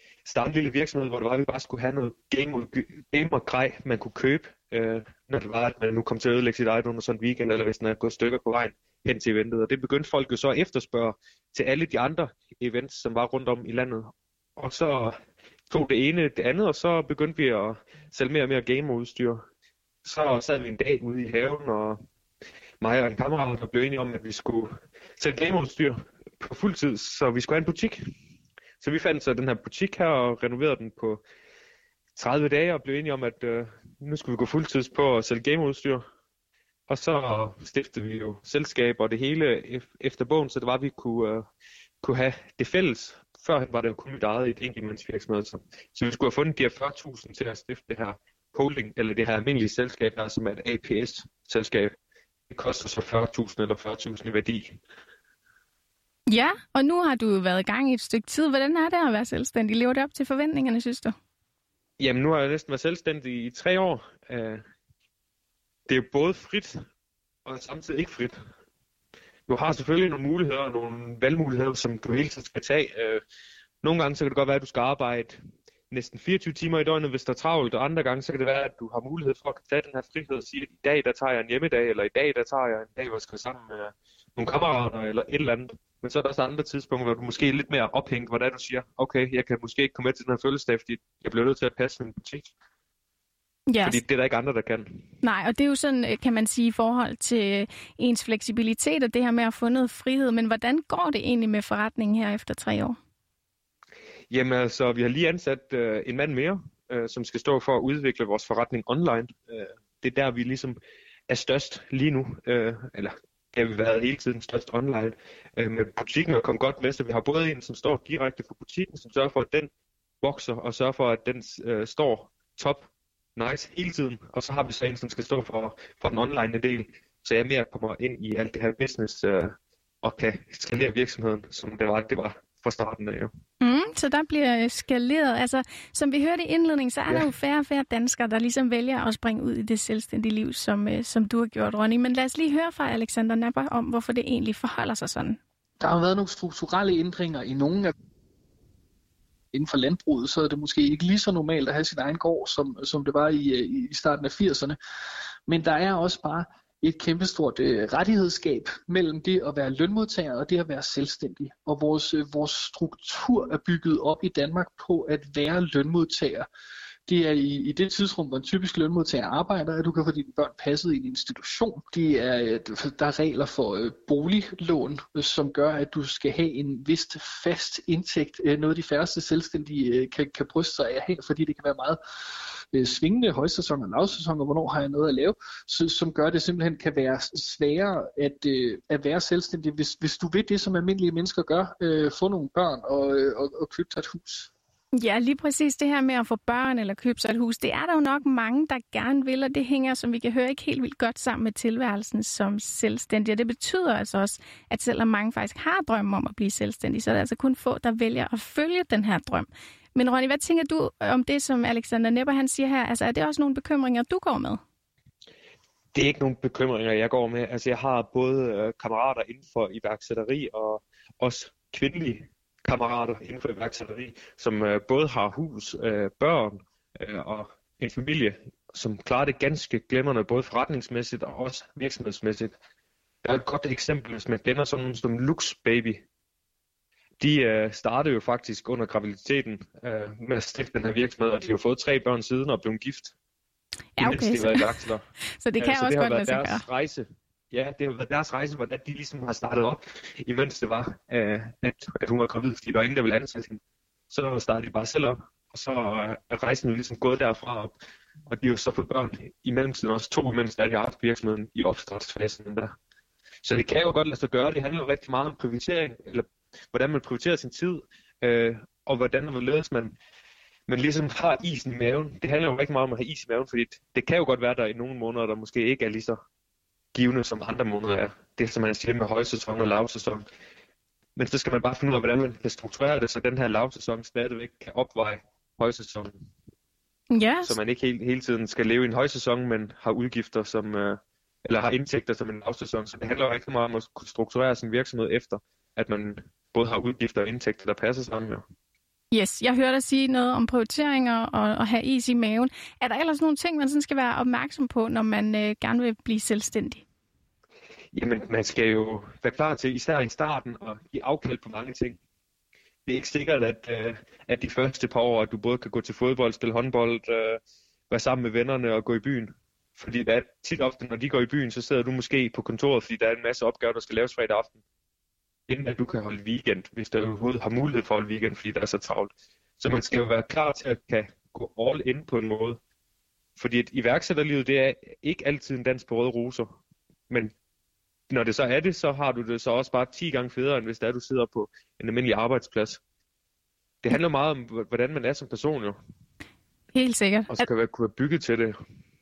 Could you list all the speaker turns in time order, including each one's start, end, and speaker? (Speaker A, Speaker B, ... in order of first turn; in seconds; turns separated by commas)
Speaker A: 0.2-15.2, Speaker A: 15.7-19.4, Speaker A: 20.0-22.0, Speaker A: 22.8-28.0, Speaker A: 28.8-31.2, Speaker A: 32.2-36.0, Speaker A: 36.9-41.5, Speaker A: 42.0-52.0, Speaker A: 52.5-54.8, Speaker B: 56.3-61.1, Speaker A: 62.0-64.6, Speaker A: 65.9-66.8, Speaker A: 67.5-68.4, Speaker A: 69.5-73.2, Speaker A: 73.8-75.4, Speaker A: 75.9-92.5, Speaker B: 93.7-94.0, Speaker A: 93.8-95.1, Speaker B: 95.2-103.0, Speaker A: 104.3-110.8, Speaker A: 111.3-119.7, Speaker A: 120.2-133.3, Speaker B: 133.6-145.4, Speaker C: 145.8-147.9, Speaker C: 149.5-154.8, Speaker C: 155.5-166.5, Speaker C: 167.1-182.0, Speaker C: 182.7-194.5, Speaker B: 195.0-214.6, Speaker A: 215.9-232.6, Speaker A: 233.2-236.0, Speaker A: 237.2-243.1, Speaker B: 244.0-244.7, Speaker A: 244.0-245.0, Speaker B: 245.4-246.6, Speaker A: 245.6-257.8, Speaker A: 258.3-262.7, Speaker A: 263.4-270.0, Speaker A: 270.7-276.2, Speaker A: 276.9-280.2, Speaker A: 281.2-286.1, Speaker B: 287.1-287.6, Speaker A: 287.4-298.4, Speaker B: 299.1-306.9, Speaker A: 307.9-312.0, Speaker A: 312.9-324.6, Speaker A: 325.5-332.6, Speaker A: 333.4-336.6, Speaker A: 338.1-342.8, Speaker A: 343.8-345.8, Speaker B: 346.7-347.5, Speaker A: 347.3-348.5